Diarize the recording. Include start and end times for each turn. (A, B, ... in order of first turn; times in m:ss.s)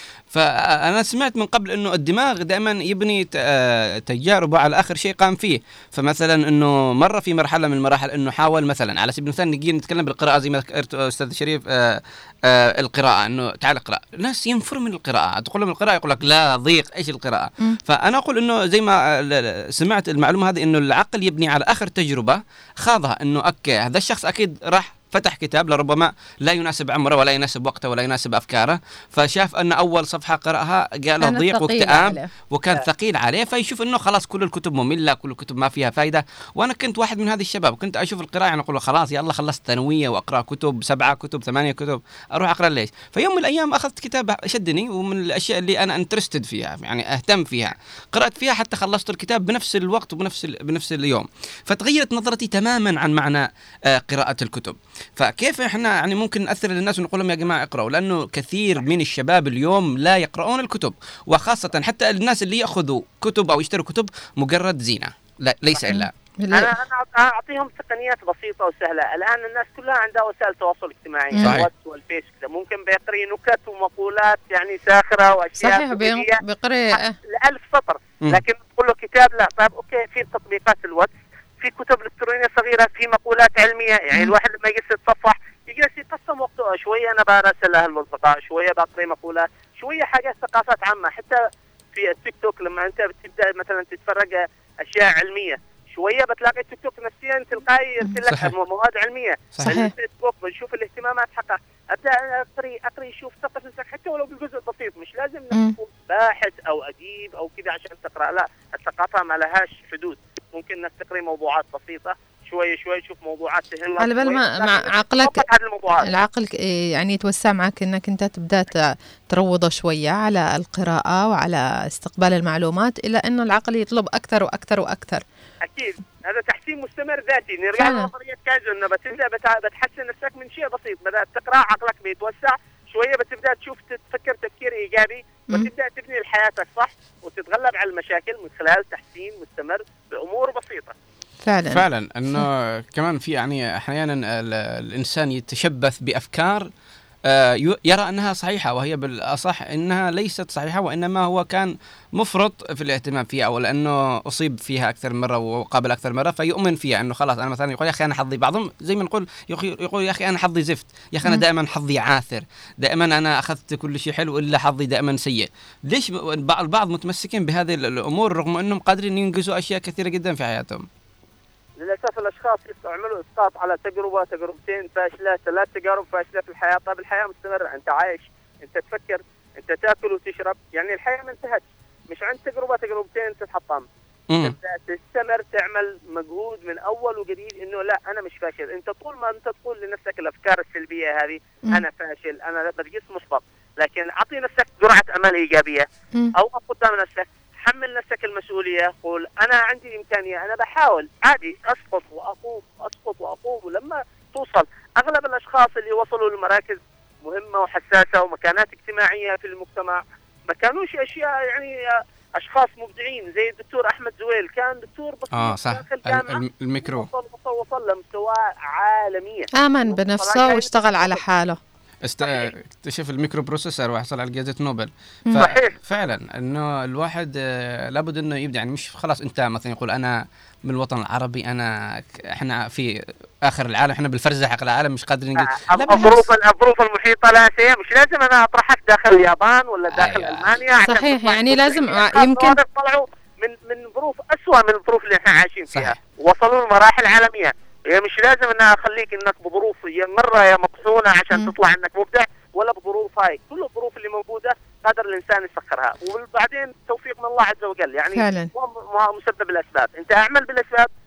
0:00.3-1:06.1 A
0:31.2-0:32.3 B
1:05.8-1:06.7 B
1:06.5-1:16.4 C
1:11.4-1:11.7 A
1:15.6-1:17.1 B
1:16.9-1:31.4 C
1:31.9-1:56.1 C
1:38.2-1:38.5 A
1:39.6-1:39.9 B
1:54.0-1:55.4 B
1:56.0-2:05.2 B
2:05.6-2:20.9 C
2:07.8-2:08.1 B
2:21.4-2:22.4 B
2:21.7-2:26.7 A
2:27.2-2:50.9 A
2:51.8-3:03.8 C
3:04.3-3:04.6 A
3:04.4-3:41.2 C
3:35.3-3:37.1 A
3:39.6-3:41.6 B
3:42.0-3:52.9 A
3:42.2-3:42.5 C
3:45.4-3:45.7 C
3:53.4-3:56.2 A
3:55.4-4:20.9 C
3:59.9-4:00.6 A
4:00.8-4:02.6 B
4:05.7-4:06.0 A
4:18.2-4:18.5 B